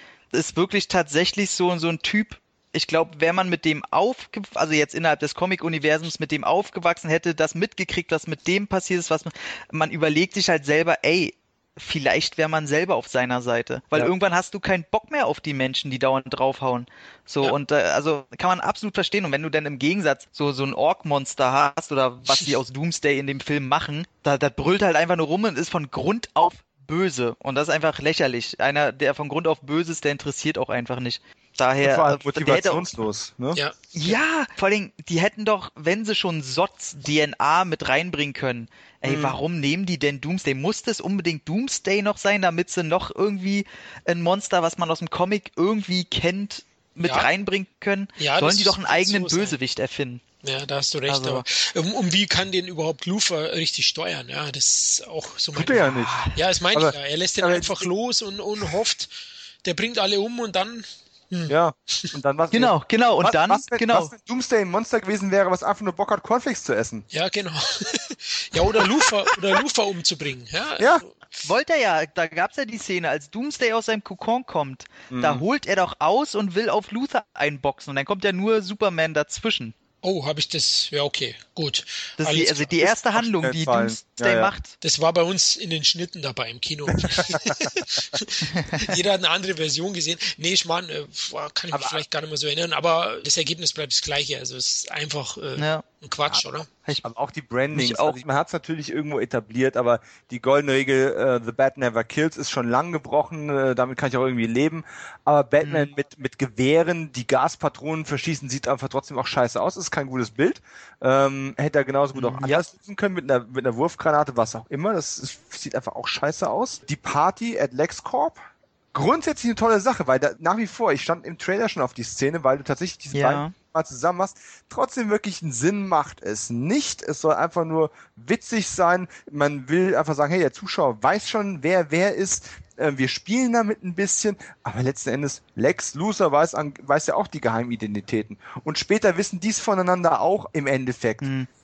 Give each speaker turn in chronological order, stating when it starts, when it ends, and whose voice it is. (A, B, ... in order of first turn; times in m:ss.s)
0:00.3-0:32.9 A
0:31.8-0:33.6 B
0:33.5-0:33.8 C
0:33.9-0:50.2 A
0:39.0-0:39.4 B
0:47.0-0:47.3 C
0:48.2-0:49.6 C
0:50.4-0:59.1 C
0:51.1-0:51.4 A
0:55.5-0:56.2 B
0:55.9-0:56.4 A
0:56.7-0:57.9 B
0:59.6-1:02.1 C
1:01.5-1:07.0 B
1:02.5-1:04.1 A
1:07.1-1:11.1 C
1:08.7-1:09.4 A
1:11.4-1:19.7 A
1:15.1-1:15.4 B
1:20.0-1:22.7 C
1:22.2-1:24.7 A
1:22.8-1:24.5 B
1:24.8-1:36.7 C
1:26.9-1:27.7 B
1:28.4-1:29.0 A
1:31.7-1:32.0 B
1:35.6-1:35.8 A
1:37.0-1:58.4 B
1:37.7-1:38.2 A
1:45.6-1:45.9 A
1:52.1-1:52.6 A
1:58.9-2:21.2 B
2:03.1-2:03.5 A
2:21.2-2:21.5 A